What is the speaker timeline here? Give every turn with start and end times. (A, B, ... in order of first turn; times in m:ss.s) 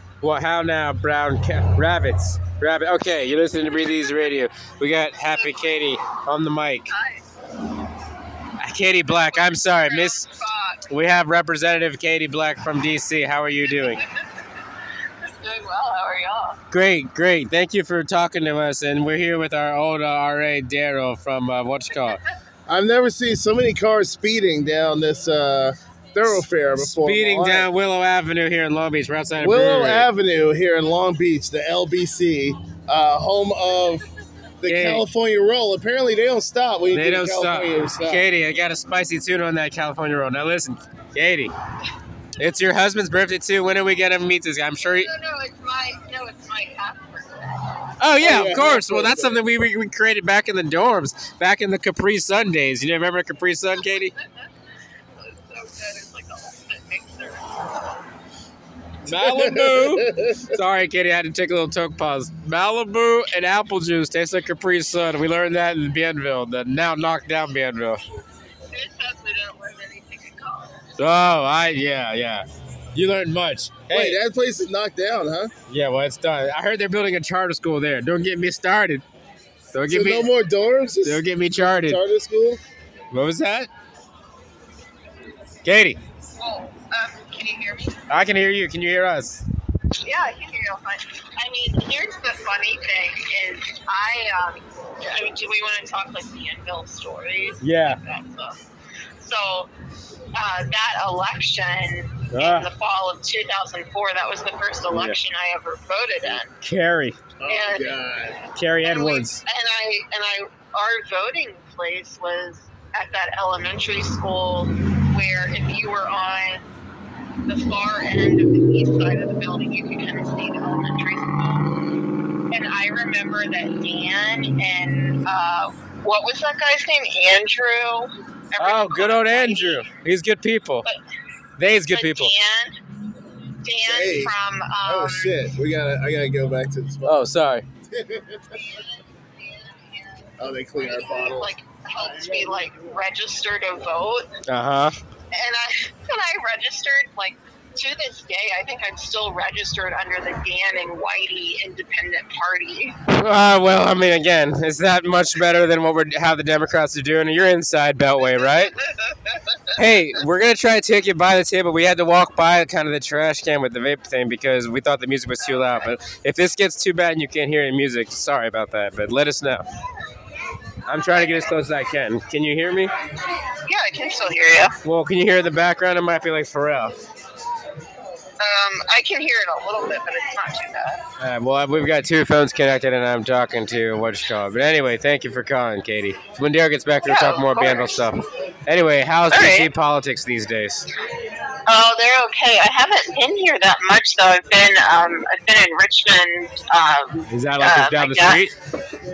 0:00.2-0:06.9 A
0:05.2-0:06.0 B
0:06.9-0:07.2 B
0:08.6-0:10.2 A
0:09.1-0:10.9 B
0:10.9-0:14.0 A
0:13.6-0:14.4 B
0:15.2-0:16.6 B
0:16.7-0:22.2 A
0:22.7-0:27.7 C
0:26.3-0:30.1 A
0:29.4-0:34.1 C
0:34.6-0:38.3 C
0:34.6-0:35.0 A
0:36.9-0:41.5 A
0:42.4-0:45.1 A
0:44.8-0:47.7 B
0:48.0-0:54.1 A
0:48.2-0:49.4 C
0:53.8-0:54.5 B
0:55.1-0:57.9 B
0:59.0-1:08.0 A
0:59.1-1:00.5 C
1:08.7-1:10.9 B
1:11.0-1:14.2 A
1:13.9-1:15.5 C
1:15.7-1:19.0 A
1:19.7-1:20.3 A
1:19.9-1:22.6 C
1:21.0-1:22.0 A
1:23.1-1:23.7 A
1:25.6-1:26.0 A
1:26.4-1:28.0 B
1:28.1-1:29.4 A
1:30.0-1:38.6 B
1:37.6-1:38.0 A
1:39.2-1:39.7 B
1:40.4-1:46.5 B
1:42.3-1:42.7 A
1:44.9-1:45.2 A
1:46.6-1:47.2 A
1:47.4-1:48.4 C
1:47.5-1:48.0 B
1:48.5-1:49.4 A
1:48.8-1:56.6 B
1:57.5-2:01.8 B
2:02.5-2:09.9 B
2:08.6-2:10.9 A
2:11.6-2:12.3 A
2:11.9-2:12.8 B
2:13.6-2:15.4 B
2:13.8-2:17.2 C
2:17.0-2:17.6 A
2:17.9-2:18.6 C
2:18.5-2:24.3 B
2:20.4-2:22.6 C
2:24.5-2:25.0 A
2:25.3-2:33.0 B
2:33.1-2:38.7 A
2:38.2-2:39.7 B
2:39.8-2:49.6 A
2:45.5-2:45.8 B
2:50.9-2:52.9 A
2:53.7-2:54.8 B
2:54.8-2:57.0 A
2:58.4-3:01.0 B
3:01.2-3:10.9 A
3:07.0-3:08.1 B
3:09.3-3:09.7 B
3:11.7-3:18.5 B
3:17.3-3:18.5 A